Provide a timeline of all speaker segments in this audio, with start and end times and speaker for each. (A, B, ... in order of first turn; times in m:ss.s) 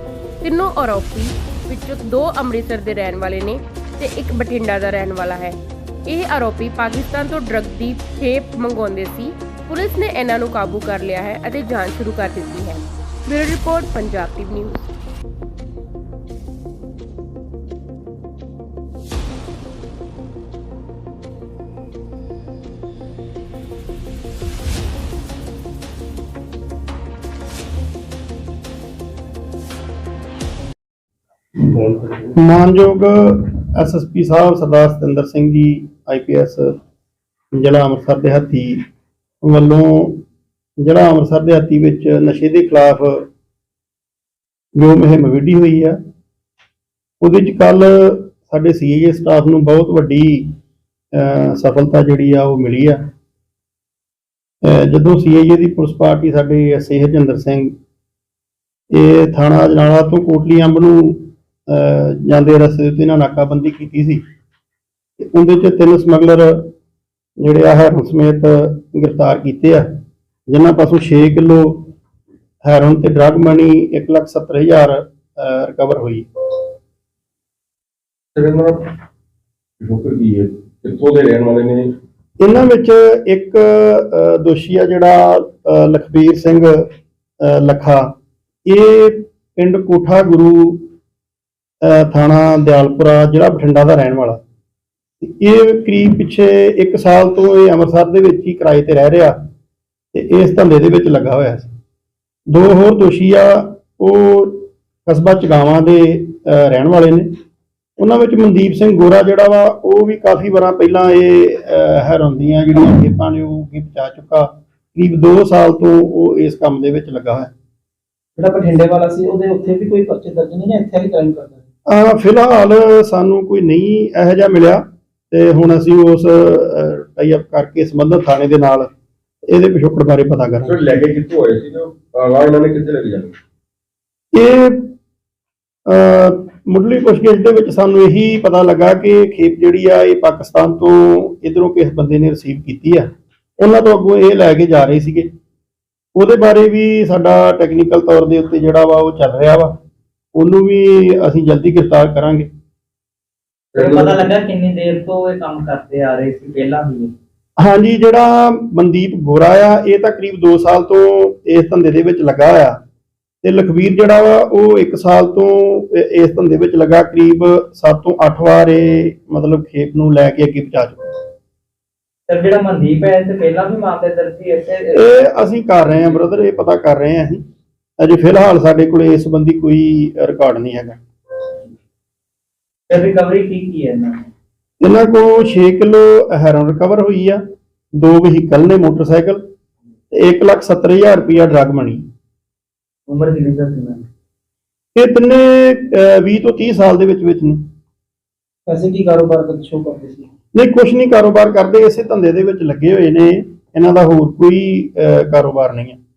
0:00.4-0:14.9 A
0:31.6-0:32.3 B
0:32.4-0:36.8 C
0:37.5-0:38.8 C
0:39.4-0:40.2 C
0:40.8-0:43.3 C
0:44.8-0:46.0 C
0:47.2-0:50.5 C
0:51.1-0:53.0 C
0:54.6-0:57.7 C
0:58.9-1:04.2 C
1:05.2-1:06.7 C
1:07.4-1:09.9 C
1:10.5-1:11.9 C
1:12.6-1:16.7 C
1:18.3-1:18.9 B
1:19.8-1:21.9 B
1:22.4-1:26.8 C
1:27.4-1:28.1 C
1:28.6-1:30.9 C
1:31.8-1:34.4 C
1:35.2-1:39.4 C
1:40.1-1:41.7 C
1:42.5-1:47.3 C
1:48.0-1:57.5 C
1:58.4-2:01.6 D
2:01.9-2:08.9 C
2:09.5-2:10.7 C
2:10.6-2:13.3 B
2:14.3-2:14.9 C
2:15.9-2:23.1 C
2:23.6-2:25.3 C
2:26.1-2:29.7 C
2:30.3-2:32.5 C
2:33.7-2:34.3 B
2:33.8-2:37.1 E
2:37.6-2:42.8 C
2:43.4-2:51.2 C
2:52.3-2:55.1 E
2:54.9-2:57.4 C
2:58.0-3:01.0 C
3:02.9-3:04.2 E
3:04.8-3:07.4 C
3:07.9-3:09.4 C
3:10.1-3:12.0 C
3:13.1-3:14.0 E
3:14.9-3:17.6 C
3:18.6-3:20.3 D
3:20.5-3:26.0 C